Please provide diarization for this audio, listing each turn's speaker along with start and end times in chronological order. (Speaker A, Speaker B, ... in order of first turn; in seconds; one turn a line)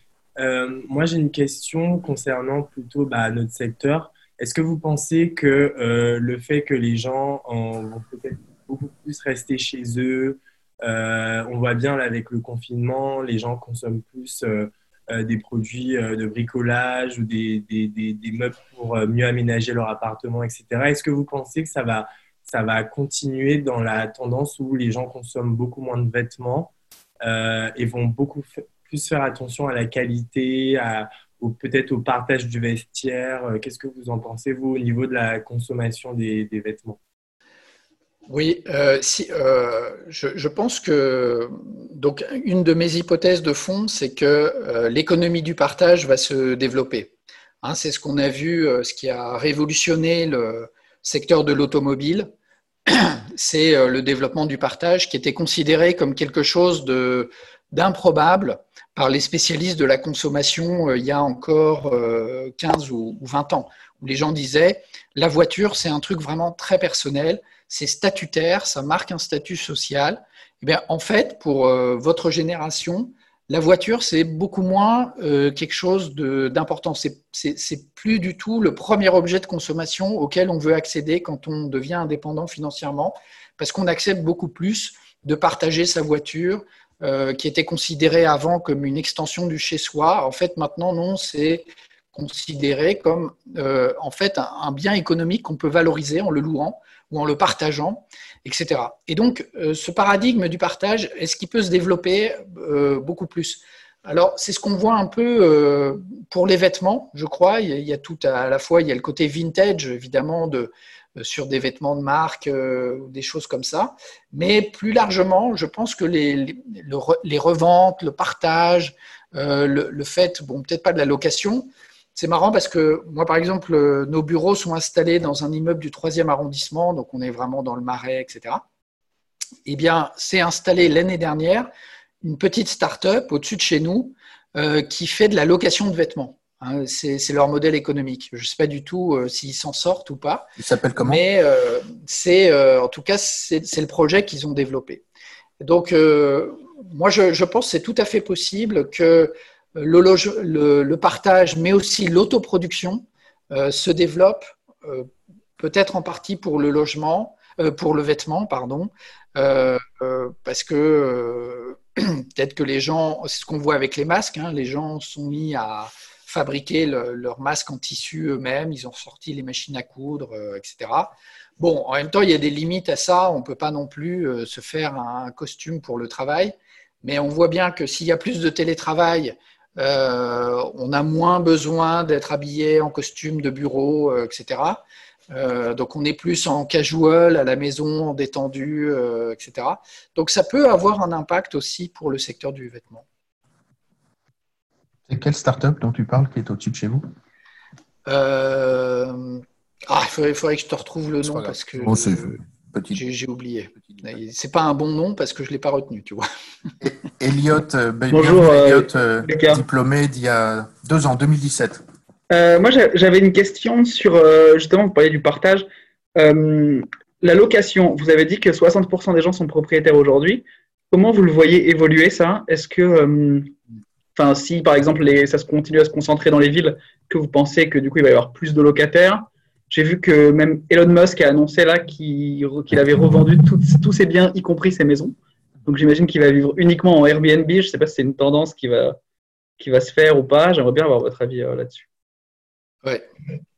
Speaker A: 0.4-26.7
Speaker A: 27.2-37.0
Speaker B: 38.3-52.3
Speaker B: 52.9-128.6
Speaker B: 129.7-131.7
Speaker B: 132.2-140.5
Speaker C: 140.6-141.2
Speaker B: 141.0-145.0
Speaker B: 145.6-193.1
Speaker C: 195.1-197.1
Speaker B: 198.1-202.4
Speaker C: 201.2-203.0
Speaker B: 202.9-206.2
Speaker C: 206.8-211.8
Speaker D: 208.1-209.6
Speaker D: 212.3-223.6
Speaker D: 224.1-239.0
Speaker D: 239.6-241.9